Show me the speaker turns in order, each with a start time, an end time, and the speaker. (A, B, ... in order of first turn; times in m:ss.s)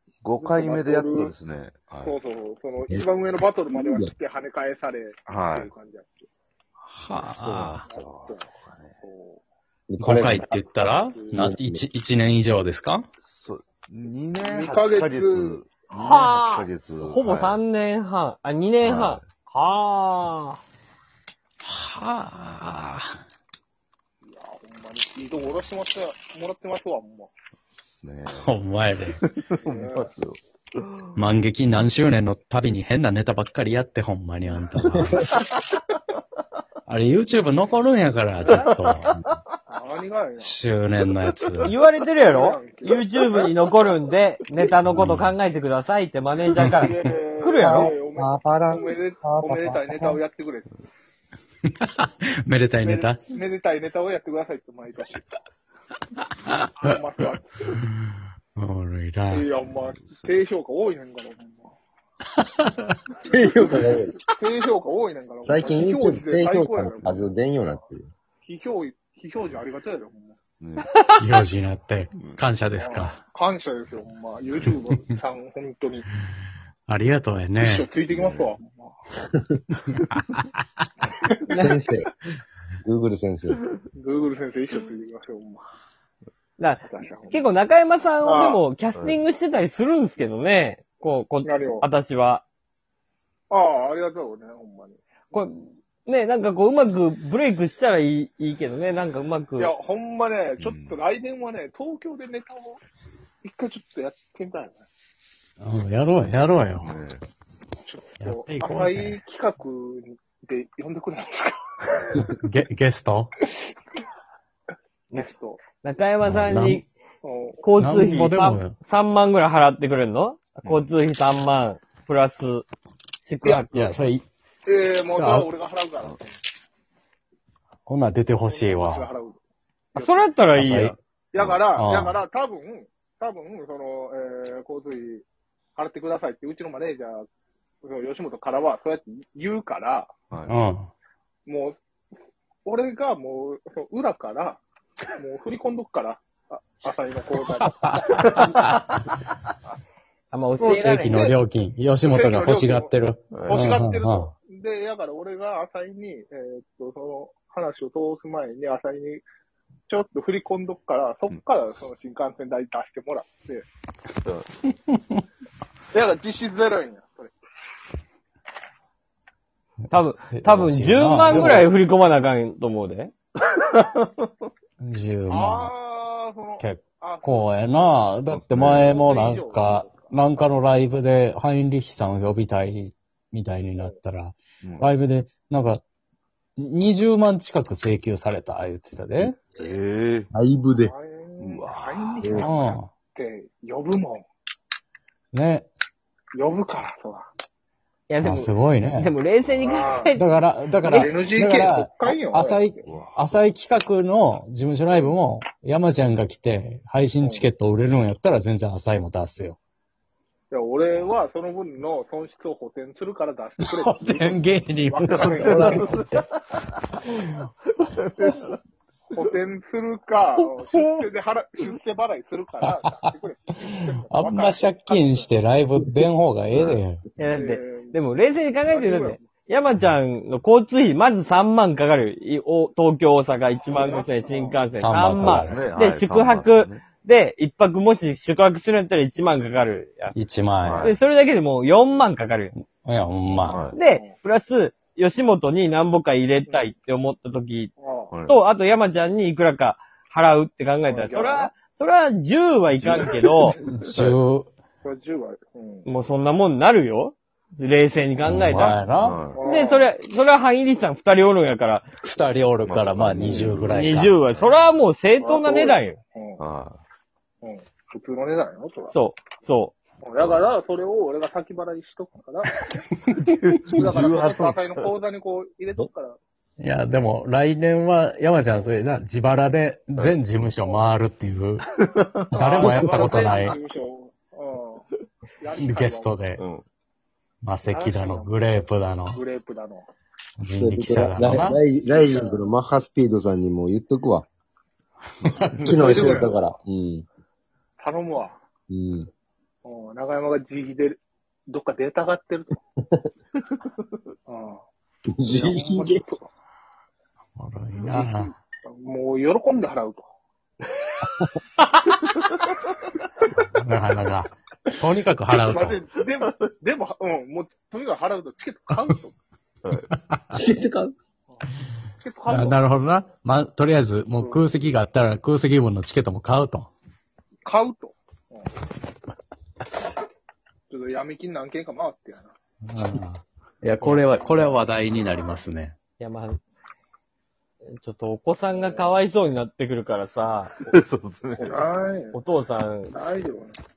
0:00.2-0:02.2 A
0:00.4-0:01.3 B
0:02.0-0:06.3 B
0:03.7-0:04.1 C
0:05.3-0:05.7 A
0:06.8-0:07.9 D
0:07.3-0:08.9 A
0:07.8-0:08.5 B
0:09.0-0:09.4 B
0:09.9-0:10.8 C
0:10.0-0:13.0 D
0:10.8-0:11.3 B
0:11.3-0:11.8 C
0:13.3-0:17.6 A
0:14.4-0:15.7 B
0:15.9-0:20.6 E
0:18.8-0:19.2 A
0:21.6-0:23.1 D
0:24.2-0:27.3 B
0:28.0-0:31.3 A
0:28.3-0:29.2 D
0:29.6-0:30.1 B
0:31.2-0:35.2 D
0:36.8-0:39.2 D
0:38.4-0:38.7 B
0:38.4-0:39.4 A
0:39.7-0:40.5 B
0:40.4-0:41.7 D
0:41.2-0:41.6 A
0:41.6-0:47.9 E
0:42.2-0:43.4 B
0:44.9-0:45.3 D
0:46.6-0:46.9 D
0:46.7-0:50.7 B
0:47.6-0:50.2 C
0:51.8-0:53.2 D
0:52.8-0:55.3 B
0:56.4-0:56.9 D
0:56.8-0:57.7 B
0:58.6-0:59.5 D
0:59.3-1:01.7 B
0:59.6-1:00.4 A
1:02.4-1:02.9 D
1:03.2-1:04.2 C
1:04.4-1:07.2 B
1:05.4-1:08.1 C
1:08.4-1:10.4 B
1:10.6-1:10.9 A
1:11.2-1:13.2 D
1:12.1-1:12.4 A
1:12.8-1:16.1 B
1:14.7-1:15.0 D
1:16.9-1:17.9 D
1:17.6-1:19.0 B
1:18.1-1:18.6 A
1:20.1-1:20.5 D
1:21.1-1:21.7 B
1:21.5-1:22.1 C
1:22.8-1:23.6 C
1:23.9-1:25.6 B
1:26.6-1:32.4 E
1:26.9-1:27.4 B
1:28.2-1:28.6 B
1:28.9-1:29.2 A
1:31.4-1:31.9 B
1:33.5-1:35.0 B
1:35.3-1:39.7 E
1:39.6-1:42.8 B
1:40.6-1:41.0 A
1:43.4-1:44.8 B
1:45.6-1:46.9 D
1:46.8-1:47.2 A
1:47.8-1:52.3 B
1:48.2-1:49.2 D
1:52.2-1:53.3 D
1:55.1-1:56.9 E
1:55.1-1:55.6 B
1:56.2-1:56.8 D
1:57.2-1:57.6 B
1:57.6-2:02.6 E
1:57.8-1:58.7 D
2:00.6-2:00.9 A
2:03.2-2:03.9 E
2:03.4-2:04.2 D
2:04.6-2:06.3 B
2:05.1-2:05.5 D
2:07.9-2:09.1 D
2:08.4-2:09.4 B
2:09.9-2:10.9 E
2:10.0-2:10.3 B
2:10.5-2:11.0 D
2:11.3-2:15.2 B
2:11.4-2:11.6 A
2:11.7-2:12.2 D
2:15.8-2:17.2 B
2:17.8-2:20.1 B
2:20.3-2:20.6 A
2:20.5-2:20.9 D
2:21.4-2:21.8 B
2:22.6-2:24.6 B
2:25.2-2:28.6 B
2:27.7-2:28.8 D
2:30.3-2:31.3 E
2:30.6-2:34.3 D
2:32.1-2:32.9 B
2:33.3-2:33.7 A
2:33.4-2:39.2 B
2:39.9-2:43.6 B
2:44.2-2:44.5 A
2:45.9-2:47.3 B
2:49.9-2:53.1 E
2:50.3-2:51.7 D
2:53.6-2:54.1 A
2:54.8-2:55.9 D
2:55.3-2:57.9 B
2:56.6-3:05.8 D
2:58.3-2:59.0 A
2:58.7-3:00.2 B
3:04.6-3:04.9 A
3:06.6-3:09.4 D
3:09.6-3:10.3 A
3:10.3-3:10.9 C
3:10.8-3:14.2 B
3:11.4-3:12.4 A
3:12.2-3:12.5 C
3:12.4-3:12.9 D
3:15.3-3:15.7 D
3:16.3-3:17.3 B
3:18.1-3:21.1 E
3:18.2-3:19.1 D
3:19.6-3:20.1 B
3:20.1-3:29.6 D
3:20.8-3:22.9 B
3:22.8-3:23.2 A
3:24.9-3:25.2 B
3:27.2-3:27.5 B
3:30.5-3:36.0 B
3:30.9-3:31.2 A
3:33.6-3:36.2 D
3:35.0-3:36.4 A
3:37.8-3:38.5 A
3:39.1-3:45.3 B
3:42.6-3:43.0 D
3:44.1-3:47.0 D
3:47.2-4:00.1 E
3:47.3-3:48.0 B
3:48.7-3:49.3 B
3:53.7-3:54.6 B
3:54.7-3:55.6 D
3:55.2-3:56.8 A
4:00.1-4:00.9 D
4:00.6-4:01.0 A
4:00.8-4:02.5 E
4:02.8-4:03.7 D
4:03.4-4:03.8 A
4:03.7-4:07.7 E
4:03.8-4:04.1 B
4:07.8-4:08.1 B
4:08.1-4:08.4 A
4:08.3-4:13.6 E
4:10.8-4:11.5 B
4:12.7-4:14.2 A
4:13.6-4:14.5 D
4:14.8-4:15.9 B
4:15.8-4:18.8 E
4:18.2-4:19.2 D
4:18.9-4:19.4 A
4:19.3-4:19.9 B
4:19.4-4:21.8 E
4:22.0-4:24.1 D
4:22.6-4:24.7 A
4:23.7-4:26.0 E
4:25.2-4:26.4 B
4:26.4-4:26.8 A
4:27.4-4:28.9 B
4:28.9-4:29.7 E
4:30.0-4:32.6 B
4:30.2-4:30.5 A
4:33.3-4:34.9 A
4:33.7-4:36.2 B
4:36.6-4:41.6 D
4:41.8-4:43.4 A
4:42.3-4:43.6 D
4:42.3-4:44.8 B
4:45.4-4:46.2 B
4:45.6-4:46.4 D
4:46.4-4:46.6 A
4:47.4-4:49.2 D
4:47.6-4:48.4 B
4:49.1-4:49.9 B
4:50.4-4:51.6 D
4:50.6-4:54.3 C
4:51.8-4:52.4 B
4:55.2-4:55.5 D
4:55.3-4:56.3 A
4:55.6-4:57.0 C
4:55.9-4:56.3 B
4:57.8-4:58.4 B
4:58.7-4:59.1 C
4:59.6-5:02.5 B
5:04.3-5:04.6 B
5:05.1-5:06.0 C
5:05.3-5:06.3 B
5:07.4-5:08.3 D
5:07.8-5:10.1 B
5:13.6-5:15.8 D
5:15.3-5:19.2 B
5:16.2-5:16.5 A
5:19.9-5:20.4 D
5:20.3-5:20.9 C
5:22.0-5:22.6 B
5:22.3-5:26.7 D
5:24.2-5:24.7 B
5:27.4-5:28.5 B
5:30.7-5:32.3 B
5:32.6-5:35.8 D
5:34.2-5:34.5 B
5:36.0-5:36.4 E
5:37.7-5:40.6 E
5:38.5-5:39.0 B
5:40.6-5:41.7 A
5:41.4-5:42.2 B
5:42.1-5:42.9 E
5:42.9-5:43.6 B